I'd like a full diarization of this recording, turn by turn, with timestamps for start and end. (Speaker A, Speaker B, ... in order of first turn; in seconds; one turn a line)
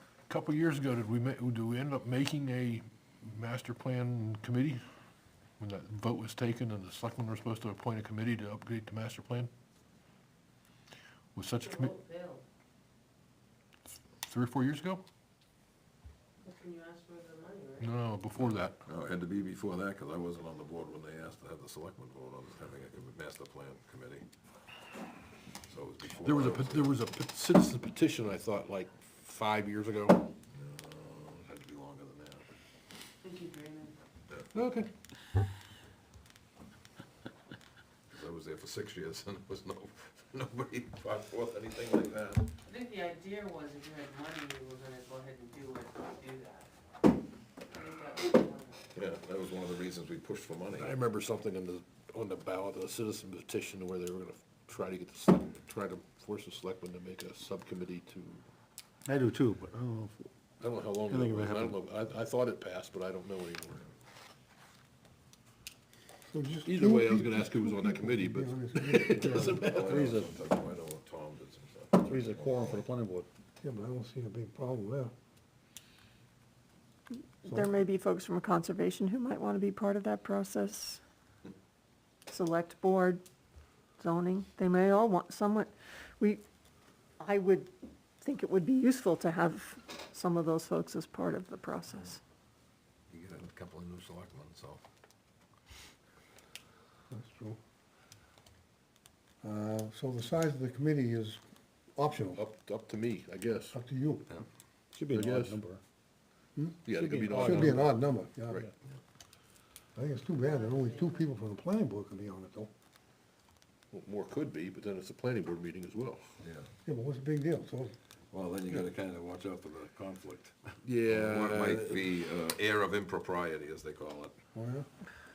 Speaker A: 0.3-4.8
Speaker A: 5.6-9.5
Speaker A: 11.3-11.9
Speaker B: 11.6-12.4
Speaker A: 14.2-15.0
Speaker B: 16.4-17.9
Speaker A: 17.8-18.8
Speaker C: 18.9-24.3
Speaker C: 25.7-26.9
Speaker A: 26.1-30.3
Speaker C: 30.5-32.4
Speaker B: 33.2-34.0
Speaker A: 34.5-34.9
Speaker C: 38.1-42.5
Speaker B: 42.6-46.7
Speaker B: 47.7-48.9
Speaker C: 49.0-50.9
Speaker A: 50.8-58.4
Speaker D: 59.1-60.3
Speaker A: 60.6-63.9
Speaker D: 61.0-61.8
Speaker E: 66.3-69.7
Speaker A: 66.7-70.0
Speaker C: 69.3-72.8
Speaker D: 69.8-70.4
Speaker D: 72.0-73.3
Speaker E: 73.6-75.1
Speaker F: 77.4-81.0
Speaker E: 77.5-77.7
Speaker F: 82.3-83.2
Speaker F: 84.0-86.4
Speaker F: 87.2-92.2
Speaker C: 93.1-94.8
Speaker E: 97.1-97.6
Speaker E: 99.4-101.4
Speaker E: 102.0-102.4
Speaker A: 102.4-103.8
Speaker E: 103.7-104.3
Speaker D: 104.9-105.8
Speaker A: 105.2-105.6
Speaker E: 106.6-108.7
Speaker A: 106.8-107.9
Speaker D: 106.9-107.9
Speaker E: 110.0-112.7
Speaker B: 110.4-111.3
Speaker A: 113.9-116.3
Speaker C: 116.4-116.7
Speaker E: 116.8-117.9
Speaker C: 118.3-124.3
Speaker A: 120.8-122.1
Speaker E: 124.5-124.9